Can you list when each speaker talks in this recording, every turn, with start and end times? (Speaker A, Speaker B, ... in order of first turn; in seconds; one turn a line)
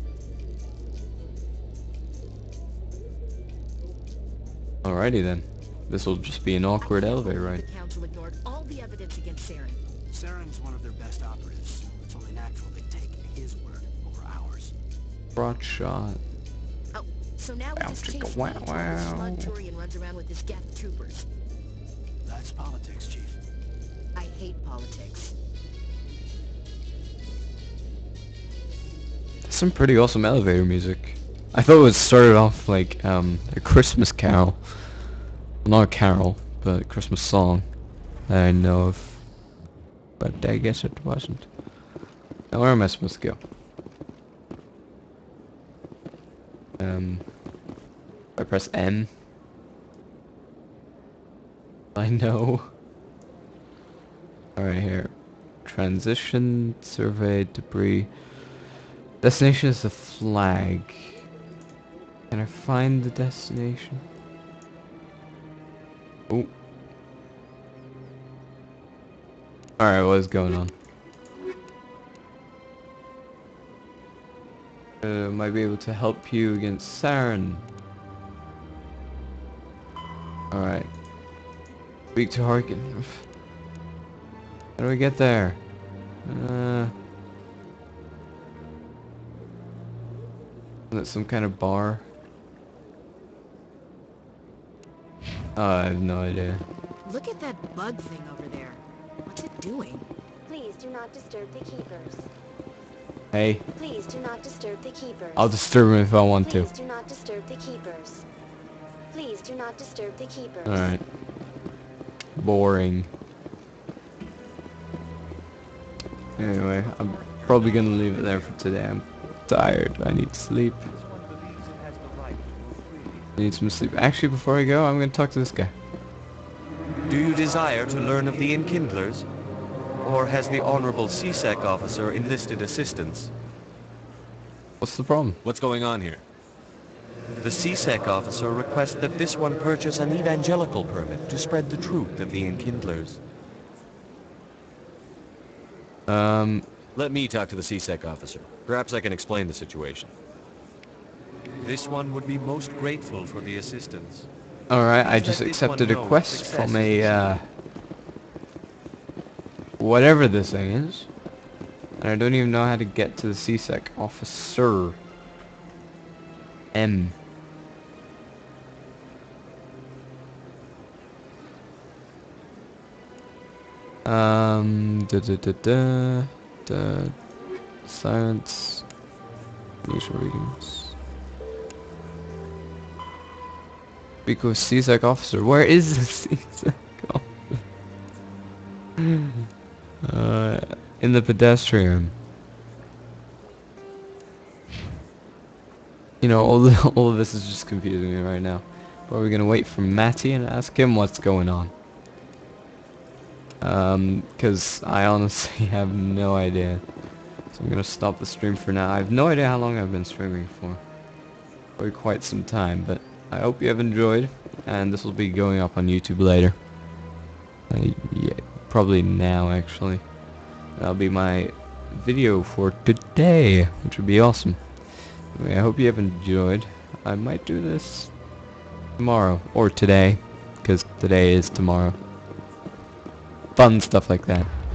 Speaker A: 4.8-7.6
Speaker B: 6.8-9.8
Speaker C: 10.1-14.7
Speaker A: 15.3-16.2
Speaker B: 16.9-21.2
Speaker A: 17.8-19.5
Speaker C: 22.2-23.4
Speaker B: 24.1-25.3
Speaker A: 29.5-34.6
Speaker A: 35.6-37.7
Speaker A: 38.3-39.2
Speaker A: 40.2-41.5
Speaker A: 42.5-43.4
Speaker A: 46.8-47.2
Speaker A: 48.4-49.1
Speaker A: 51.9-52.7
Speaker A: 54.6-55.1
Speaker A: 55.6-58.1
Speaker A: 59.2-61.2
Speaker A: 62.3-64.0
Speaker A: 69.8-70.7
Speaker A: 75.0-77.6
Speaker A: 80.5-80.9
Speaker A: 82.1-83.2
Speaker A: 84.8-85.6
Speaker A: 86.2-86.9
Speaker A: 90.9-92.0
Speaker A: 95.5-96.6
Speaker B: 97.0-100.0
Speaker D: 100.5-102.3
Speaker A: 103.3-103.6
Speaker D: 103.7-105.5
Speaker A: 105.3-106.7
Speaker D: 106.4-108.2
Speaker D: 109.1-111.0
Speaker A: 110.7-111.0
Speaker A: 112.4-113.1
Speaker A: 116.4-120.8
Speaker A: 123.4-125.7
Speaker E: 127.0-129.2
Speaker E: 130.0-133.3
Speaker A: 134.8-135.4
Speaker F: 135.4-136.2
Speaker E: 137.4-143.2
Speaker A: 146.1-146.7
Speaker F: 146.9-150.1
Speaker E: 151.6-154.3
Speaker A: 154.7-157.4
Speaker E: 155.0-157.4
Speaker A: 159.8-161.1
Speaker A: 162.0-165.0
Speaker A: 166.7-167.1
Speaker A: 174.0-177.1
Speaker A: 177.8-178.8
Speaker A: 179.8-180.9
Speaker A: 184.2-187.3
Speaker A: 189.0-189.5
Speaker A: 190.0-192.1
Speaker A: 196.2-201.7
Speaker A: 203.6-206.8
Speaker A: 207.5-210.8
Speaker A: 211.8-216.6
Speaker A: 217.7-220.0
Speaker A: 220.8-224.6
Speaker A: 225.3-228.1
Speaker A: 229.0-232.0
Speaker A: 233.6-234.5